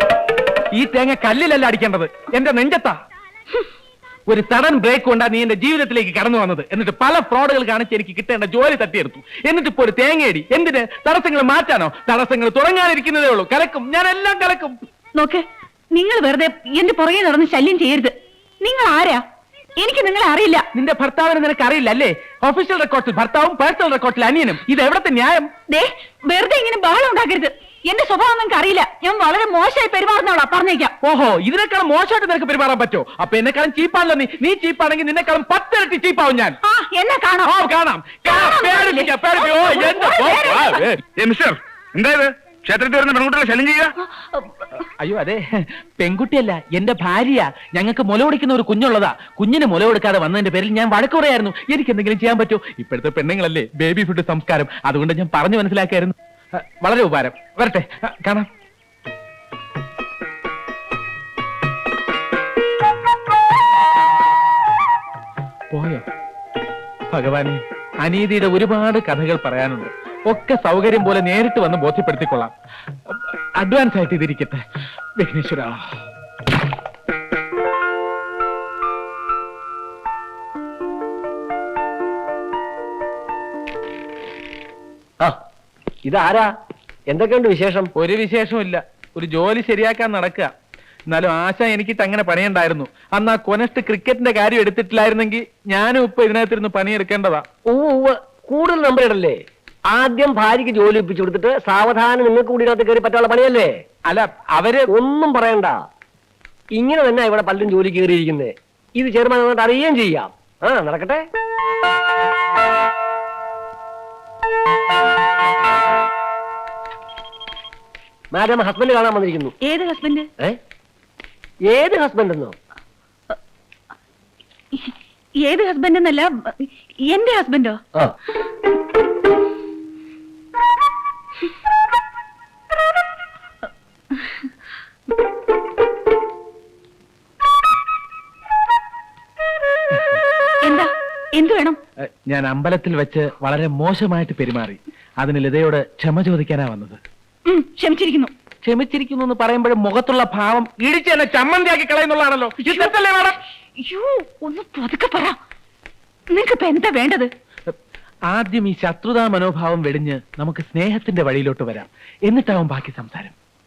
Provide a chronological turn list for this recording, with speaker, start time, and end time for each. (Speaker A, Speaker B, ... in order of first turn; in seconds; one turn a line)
Speaker A: 0.8-3.0
Speaker A: 4.3-14.8
Speaker B: 15.2-15.4
Speaker B: 15.9-19.2
Speaker B: 19.8-20.6
Speaker A: 20.7-25.5
Speaker B: 25.7-30.9
Speaker A: 31.0-36.6
Speaker B: 36.6-37.5
Speaker A: 37.5-40.5
Speaker B: 38.3-40.9
Speaker C: 40.6-43.9
Speaker B: 44.2-44.5
Speaker A: 45.0-45.4
Speaker A: 46.0-58.5
Speaker A: 65.7-66.0
Speaker A: 67.1-72.5
Speaker A: 73.1-74.6
Speaker A: 75.2-75.7
Speaker D: 86.0-86.5
Speaker D: 87.1-87.9
Speaker A: 88.0-90.5
Speaker A: 91.1-97.4
Speaker D: 97.7-99.4
Speaker D: 99.9-103.7
Speaker A: 104.1-104.9
Speaker D: 104.9-105.8
Speaker D: 106.8-111.2
Speaker D: 118.3-119.5
Speaker B: 119.6-120.3
Speaker D: 121.6-122.5
Speaker B: 124.7-127.8
Speaker B: 140.6-141.8
Speaker A: 142.2-147.0
Speaker B: 147.5-148.3
Speaker A: 148.6-153.3
Speaker B: 152.6-153.0
Speaker B: 153.8-155.3
Speaker B: 156.3-157.3
Speaker A: 158.3-163.3